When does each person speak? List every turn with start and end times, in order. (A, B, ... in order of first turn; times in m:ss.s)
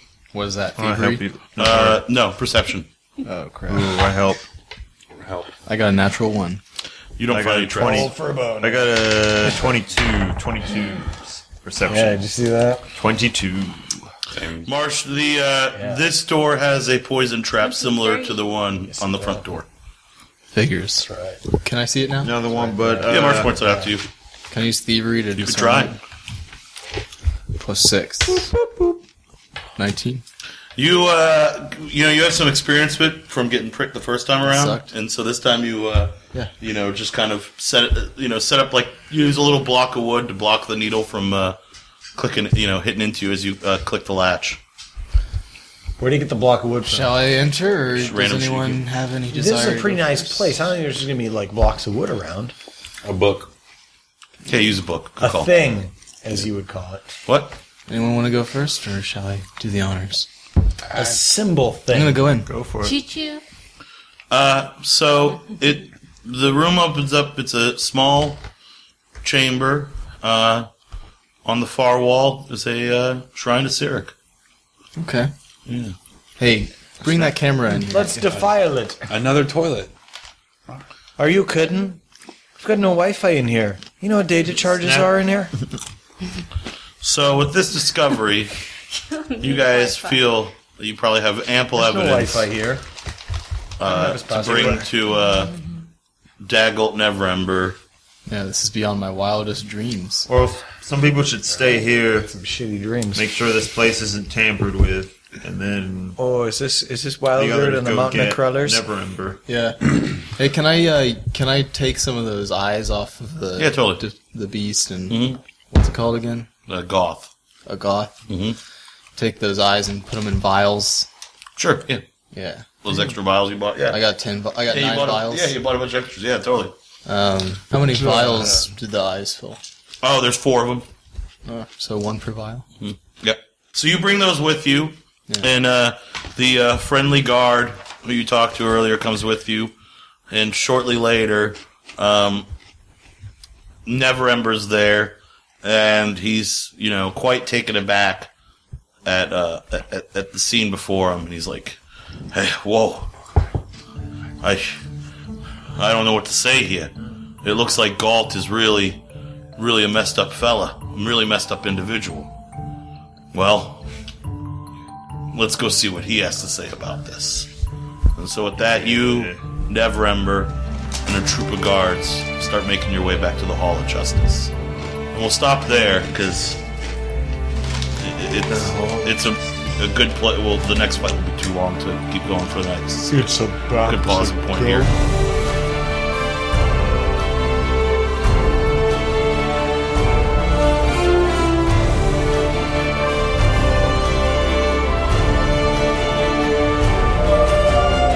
0:00.3-0:01.2 A
0:00.8-0:02.0 B
0:01.6-0:02.9 C
0:03.2-0:04.0 A
0:03.7-0:04.4 B
0:05.1-0:05.5 D
0:05.7-0:06.6 A
0:07.2-0:08.1 C
0:07.3-0:12.2 B
0:07.8-0:09.8 E
0:11.8-0:12.9 E
0:13.0-0:13.9 B
0:14.3-0:14.7 D
0:14.6-0:19.7 C
0:15.7-0:16.0 E
0:17.6-0:18.5 F
0:18.9-0:19.5 E
0:20.5-0:22.4 A
0:21.0-0:21.4 E
0:22.2-0:23.5 B
0:22.5-0:23.9 E
0:23.1-0:24.1 C
0:24.5-0:26.0 A
0:25.4-0:26.0 C
0:27.6-0:28.5 A
0:29.8-0:30.2 A
0:30.8-0:41.6 C
0:34.5-0:34.9 A
0:42.2-0:44.6 C
0:46.0-0:47.3 E
0:46.9-0:50.6 A
0:47.9-0:48.9 C
0:49.3-0:52.5 E
0:53.0-0:53.5 D
0:54.4-0:55.6 C
0:55.2-0:57.1 E
0:57.3-0:57.6 C
0:57.9-1:00.3 A
1:00.9-1:02.3 E
1:01.9-1:02.5 A
1:02.5-1:03.0 B
1:02.8-1:03.4 F
1:04.3-1:08.4 C
1:09.2-1:10.7 C
1:11.4-1:14.1 C
1:15.0-1:15.3 A
1:15.7-1:16.0 C
1:16.4-1:18.2 A
1:17.9-1:19.0 E
1:19.1-1:19.9 D
1:21.2-1:22.0 E
1:22.6-1:25.5 E
1:27.0-1:28.6 C
1:29.1-1:30.3 F
1:29.4-1:32.5 C
1:31.8-1:32.8 E
1:33.8-1:35.5 C
1:33.8-1:34.9 E
1:36.4-1:37.8 C
1:38.3-1:40.3 A
1:40.3-1:42.3 B
1:41.5-1:43.3 E
1:43.2-1:46.2 B
1:46.2-1:48.8 E
1:47.4-1:49.4 B
1:49.5-1:56.5 A
1:53.6-1:54.0 C
1:55.1-1:55.4 C
1:56.7-1:57.3 C
1:57.7-1:58.2 A
1:58.3-1:58.6 C
1:59.2-2:01.1 A
2:01.6-2:02.0 C
2:02.3-2:02.7 A
2:02.8-2:04.0 C
2:03.9-2:05.6 A
2:04.7-2:06.7 C
2:07.1-2:09.6 A
2:08.2-2:08.5 E
2:10.0-2:10.9 C
2:11.5-2:12.7 A
2:12.8-2:19.7 C
2:20.3-2:22.5 C
2:23.9-2:28.3 C
2:29.0-2:31.8 C
2:32.3-2:33.1 C
2:34.4-2:34.8 C
2:35.8-2:39.0 C
2:39.6-2:42.3 C
2:43.3-2:43.9 C
2:45.3-2:47.5 C
2:48.2-2:50.6 C
2:48.6-2:49.4 B
2:51.1-2:54.5 C
2:55.1-2:56.6 C
2:58.0-3:03.3 C
2:58.6-2:58.9 B
3:03.1-3:04.9 E
3:03.8-3:04.9 C